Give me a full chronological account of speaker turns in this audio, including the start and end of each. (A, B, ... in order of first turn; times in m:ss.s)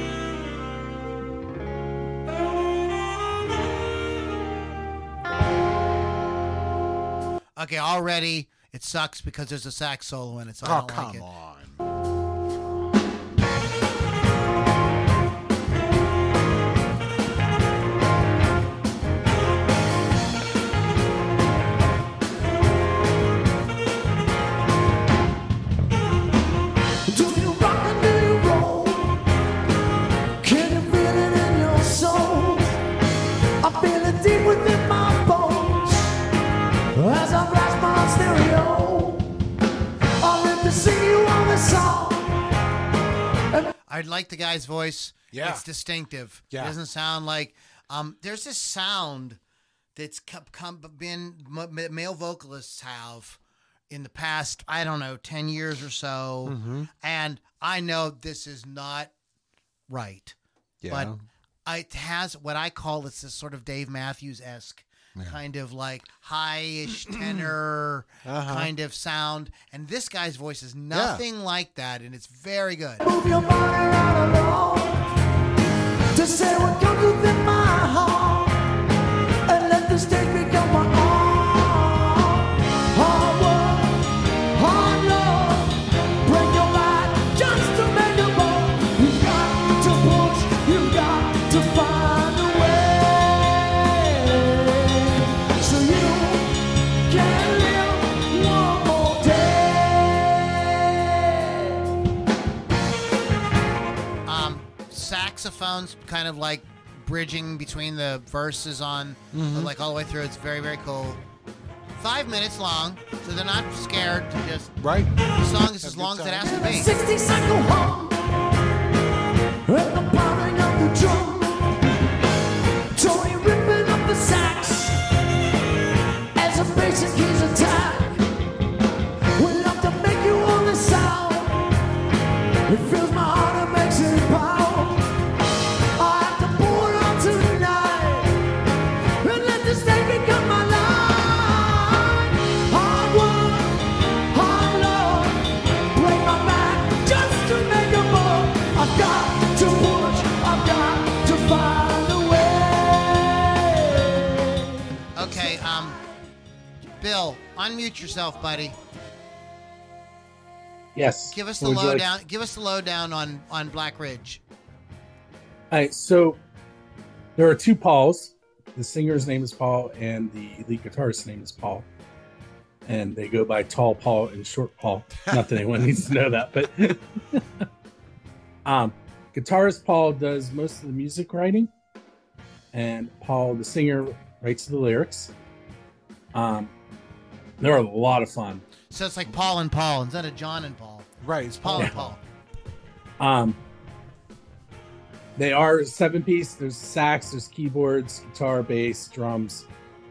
0:07.6-0:11.3 A
0:10.6-0:11.8 B
0:27.0-0:29.3 C
0:30.4-0:32.8 C
0:33.6-0:36.3 C
0:36.9-0:39.5 C
0:40.2-0:42.5 C
0:43.9-0:49.4 A
0:45.3-0:45.6 B
0:50.0-0:53.4 A
0:53.9-0:59.1 A
0:56.4-0:56.9 B
0:59.9-1:00.4 A
1:00.8-1:01.2 B
1:00.9-1:01.2 A
1:01.7-1:13.0 A
1:07.1-1:07.5 B
1:08.2-1:08.7 B
1:10.9-1:11.2 B
1:13.0-1:15.2 C
1:16.1-1:18.8 C
1:19.5-1:42.0 C
1:44.3-1:51.2 A
1:49.3-1:49.7 B
1:51.9-1:56.9 A
1:54.8-1:55.2 B
1:55.7-1:56.6 B
1:56.4-1:58.2 C
1:59.7-2:01.8 C
2:02.9-2:05.1 C
2:06.4-2:08.2 C
2:09.4-2:11.7 C
2:12.7-2:15.1 C
2:16.0-2:18.5 C
2:19.2-2:34.8 C
2:35.2-2:36.0 A
2:37.0-2:38.8 A
2:41.0-2:42.1 D
2:41.3-2:44.4 A
2:45.7-2:46.4 D
2:47.4-2:51.9 D
2:52.9-2:57.4 D
2:55.2-2:55.9 B
2:58.6-3:01.7 D
3:02.7-3:05.3 D
3:06.3-3:06.7 D
3:07.6-3:08.6 D
3:08.9-3:11.1 A
3:11.2-3:12.2 B
3:11.6-3:12.2 A
3:13.2-3:13.6 D
3:15.4-3:19.7 D